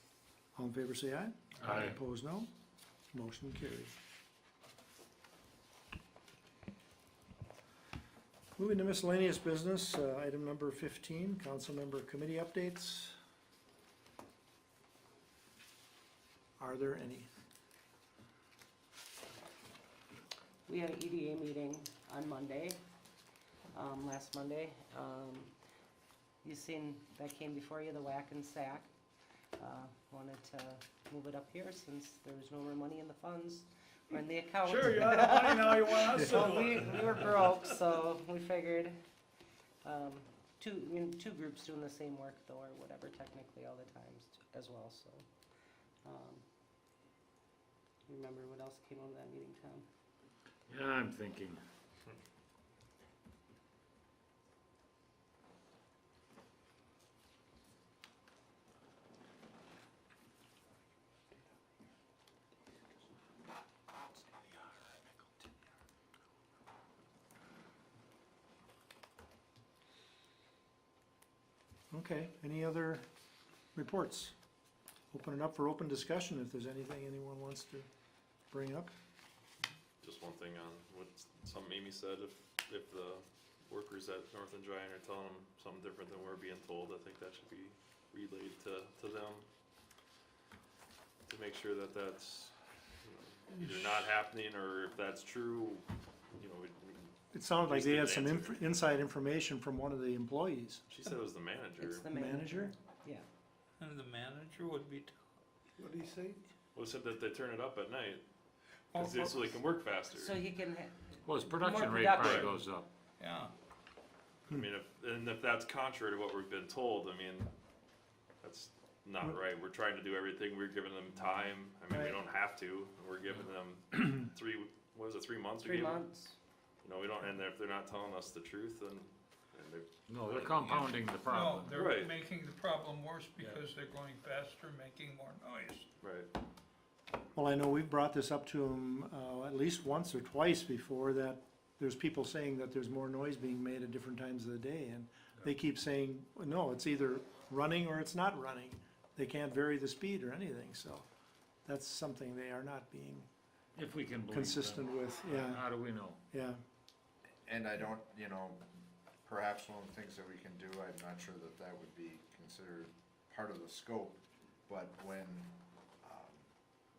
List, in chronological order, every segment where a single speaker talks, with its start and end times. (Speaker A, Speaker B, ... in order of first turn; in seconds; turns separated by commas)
Speaker A: 0.6-2.5, Speaker B: 1.6-2.0, Speaker A: 3.1-3.9, Speaker A: 8.6-13.2, Speaker A: 16.6-17.3, Speaker C: 20.7-22.8, Speaker C: 23.7-25.5, Speaker C: 26.4-28.9, Speaker C: 29.6-39.0, Speaker D: 34.6-37.3, Speaker C: 39.8-45.2, Speaker C: 46.0-46.5, Speaker C: 48.1-49.9, Speaker B: 50.7-51.6, Speaker A: 71.9-73.0, Speaker A: 73.8-74.3, Speaker A: 75.1-77.9, Speaker A: 78.5-78.9, Speaker D: 80.0-89.5, Speaker D: 91.3-98.6, Speaker A: 97.3-100.8, Speaker D: 100.9-102.1, Speaker C: 101.8-103.3, Speaker A: 102.1-102.7, Speaker E: 103.8-105.2, Speaker A: 105.8-106.4, Speaker D: 106.7-108.2, Speaker E: 108.9-109.4, Speaker D: 109.0-110.5, Speaker C: 110.1-112.6, Speaker B: 111.3-112.9, Speaker D: 112.0-112.6, Speaker E: 113.2-113.5, Speaker D: 114.5-117.5, Speaker D: 118.4-126.0, Speaker A: 121.9-122.2, Speaker C: 125.6-126.4, Speaker D: 126.8-130.8, Speaker B: 130.1-131.9, Speaker E: 130.7-135.9, Speaker D: 131.7-132.1, Speaker D: 136.0-136.3, Speaker A: 137.4-151.1, Speaker A: 151.7-153.3, Speaker B: 153.8-156.2, Speaker A: 154.3-155.7, Speaker A: 156.3-156.6, Speaker F: 157.5-158.6, Speaker F: 159.2-166.5